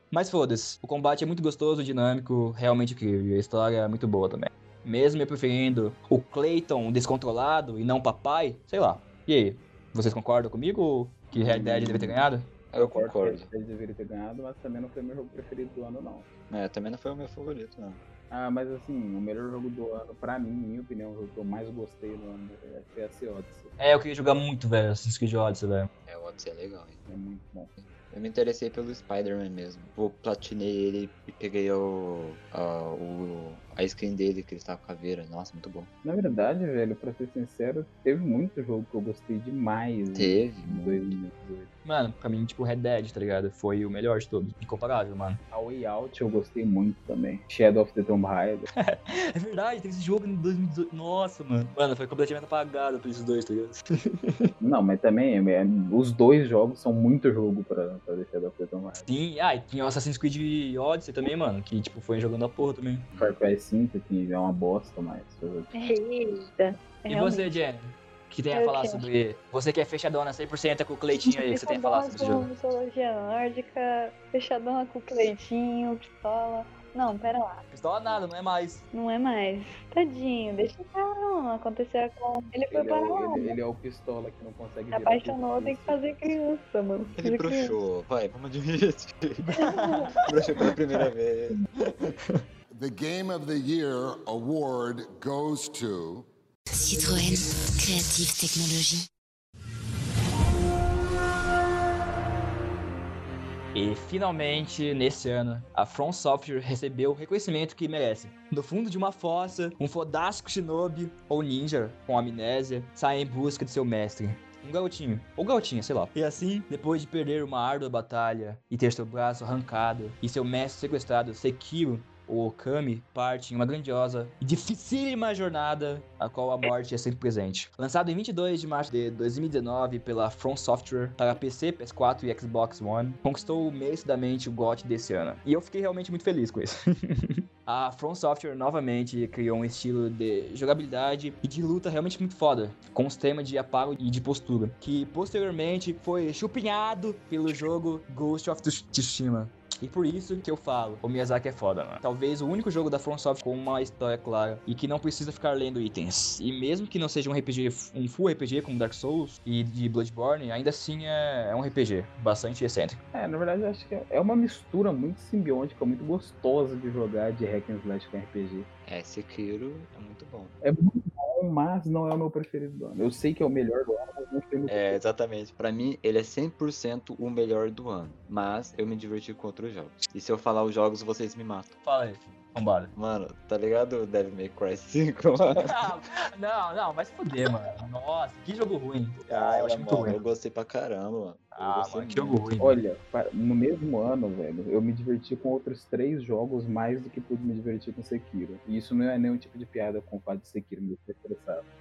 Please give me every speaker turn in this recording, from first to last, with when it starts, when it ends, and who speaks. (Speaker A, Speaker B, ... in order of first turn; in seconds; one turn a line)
Speaker A: 0.1-12.5
Speaker B: 11.3-12.2
Speaker C: 12.7-13.5
Speaker B: 12.8-16.3
Speaker C: 16.5-18.0
Speaker B: 18.3-23.7
Speaker A: 23.8-25.9
Speaker C: 26.1-27.1
Speaker B: 27.1-27.7
Speaker C: 27.8-35.9
Speaker B: 36.0-41.7
Speaker C: 40.1-41.1
Speaker A: 41.9-45.4
Speaker B: 45.5-48.7
Speaker A: 48.8-54.5
Speaker B: 54.6-59.1
Speaker A: 59.0-63.1
Speaker C: 63.1-63.4
Speaker B: 63.2-65.7
Speaker D: 65.7-67.5
Speaker A: 67.1-72.5
Speaker D: 68.5-69.1
Speaker D: 71.2-77.6
Speaker A: 77.7-78.8
Speaker D: 78.9-83.5
Speaker B: 82.7-86.4
Speaker D: 84.9-87.8
Speaker C: 87.2-89.5
Speaker A: 89.4-90.2
Speaker D: 89.5-90.3
Speaker C: 90.2-91.6
Speaker A: 91.8-92.4
Speaker E: 92.7-96.3
Speaker F: 96.7-99.1
Speaker A: 103.7-163.0
Speaker B: 163.1-168.7
Speaker C: 168.9-170.6
Speaker B: 170.6-175.0
Speaker C: 174.7-181.8
Speaker A: 181.8-182.9
Speaker C: 182.9-185.8
Speaker A: 185.6-190.2
Speaker C: 189.3-192.5
Speaker A: 191.6-192.8
Speaker B: 192.6-201.6